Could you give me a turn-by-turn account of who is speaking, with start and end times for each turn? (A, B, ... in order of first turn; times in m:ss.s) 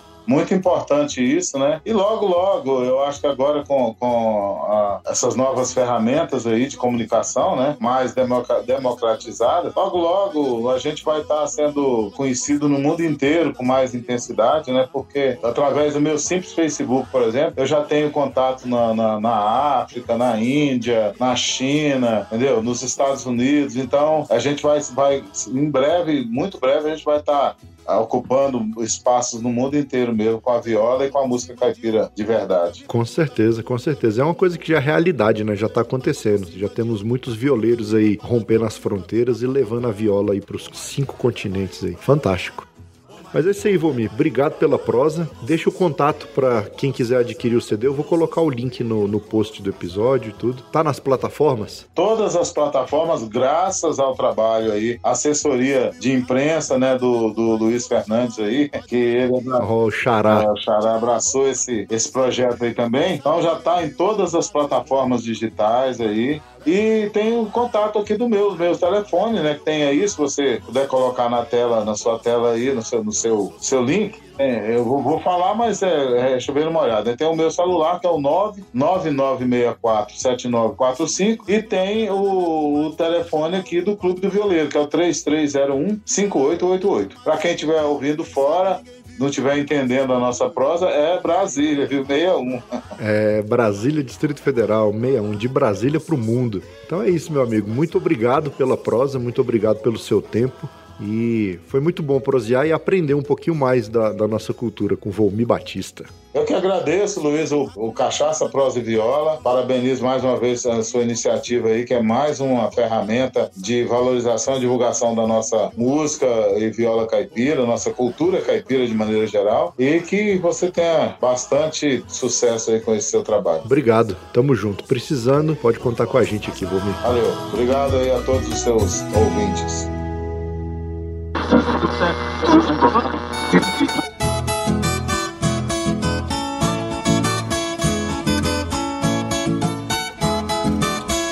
0:00.3-0:32.8 A
0:32.9-0:42.7 B
0:43.3-0:51.8 B
0:52.0-0:59.6 A
0:59.6-1:00.5 B
1:00.3-1:32.8 A
1:33.0-1:46.1 B
1:46.3-2:03.6 A
2:03.6-2:07.0 B
2:07.0-2:09.9 A